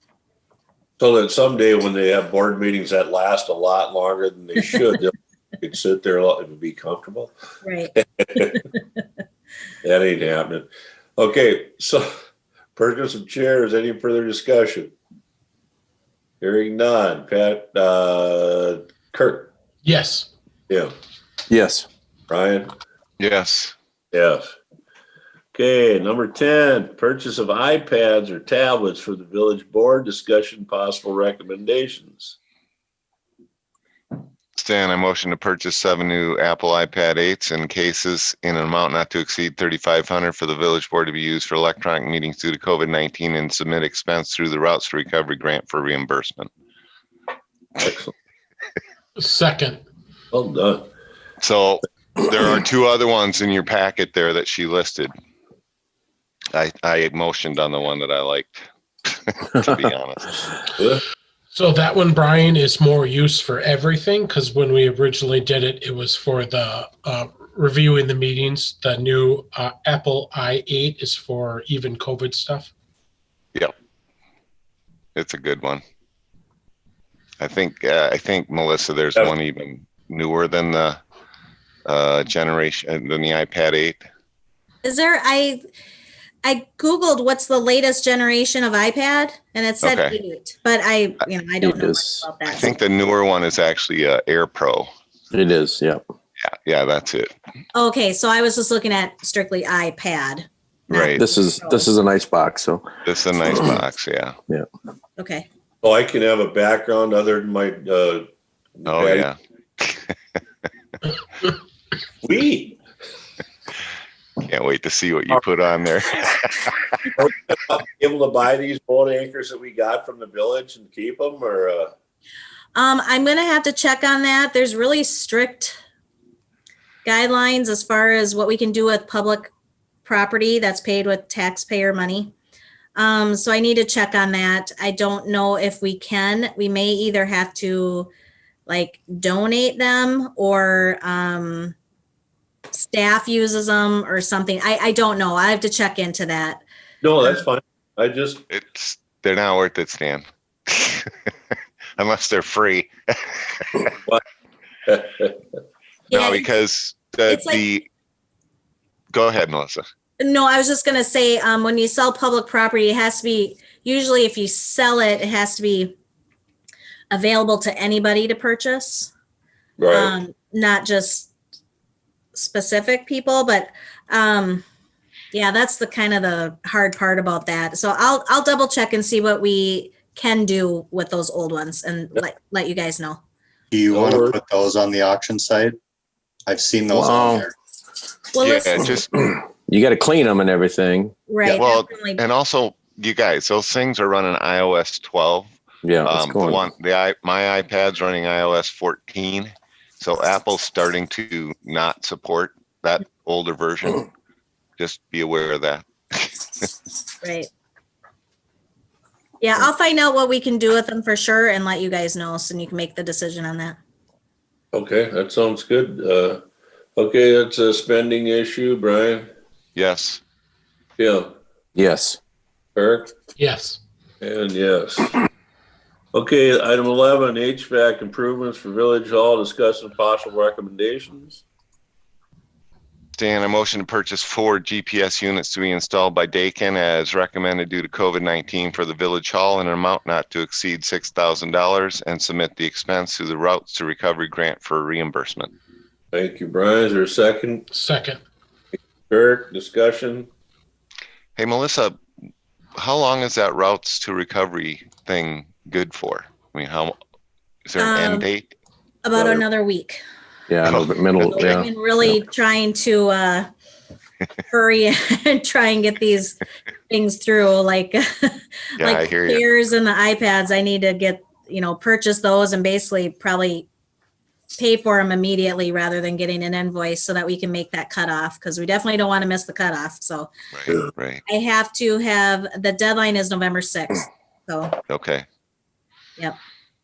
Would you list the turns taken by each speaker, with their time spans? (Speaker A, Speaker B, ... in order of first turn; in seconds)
Speaker A: 1.0-7.3, 8.0-8.6, 9.8-12.1, 12.8-14.9, 16.4-19.5, 22.3-22.7, 24.1-24.4, 25.5-32.4, 47.8-48.1, 50.3-50.9, 60.8-61.0, 105.8-108.3, 108.8-109.3, 112.2-112.8, 117.2-121.9, 147.0-148.4, 154.9-155.4, 169.8-170.2, 183.9-184.4, 214.7-216.4, 217.0-219.3, 221.0-221.3, 222.8-223.1, 224.2-225.2, 226.1-231.4, 246.1-247.6, 249.1-250.3
Speaker B: 7.6-8.8, 84.8-85.6, 86.4-92.8, 97.7-101.9, 105.2-105.5, 122.8-125.8, 127.0-129.5, 130.1-132.3, 133.0-138.1, 138.7-141.8, 142.7-146.6, 156.1-156.5, 157.3-157.6, 160.2-165.9, 167.1-169.1, 169.9-171.3, 172.3-174.6, 175.3-183.2, 188.3-189.0, 191.3-192.2, 207.2-207.5, 209.4-213.8, 257.8-258.3, 259.0-260.0, 261.2-263.5, 264.5-273.7, 274.6-280.3, 281.3-284.8
Speaker C: 19.9-20.3, 49.2-49.8, 61.5-72.7, 223.4-223.8, 247.7-248.2
Speaker D: 21.5-21.9, 91.6-92.3, 95.3-96.0, 101.2-103.0, 186.9-187.5, 189.7-191.1, 195.8-196.6, 221.8-222.2, 260.5-261.7
Speaker E: 23.2-23.8, 34.6-46.5, 51.4-55.1, 56.5-60.4, 75.2-75.8, 77.4-81.0, 81.9-84.0, 89.8-90.2, 92.5-94.9, 96.4-97.3, 100.9-101.2, 103.0-104.3, 108.9-110.2, 114.4-116.8, 148.5-151.1, 152.0-153.9, 156.1-157.8, 159.1-159.8, 188.4-189.1, 191.4-195.5, 196.0-204.1, 204.8-206.7, 219.8-220.2, 233.2-245.5, 251.4-252.0, 252.8-257.0, 257.7-258.5, 260.6-261.5, 268.8-269.5, 280.5-281.2, 284.9-285.3
Speaker F: 183.7-185.8, 186.5-187.5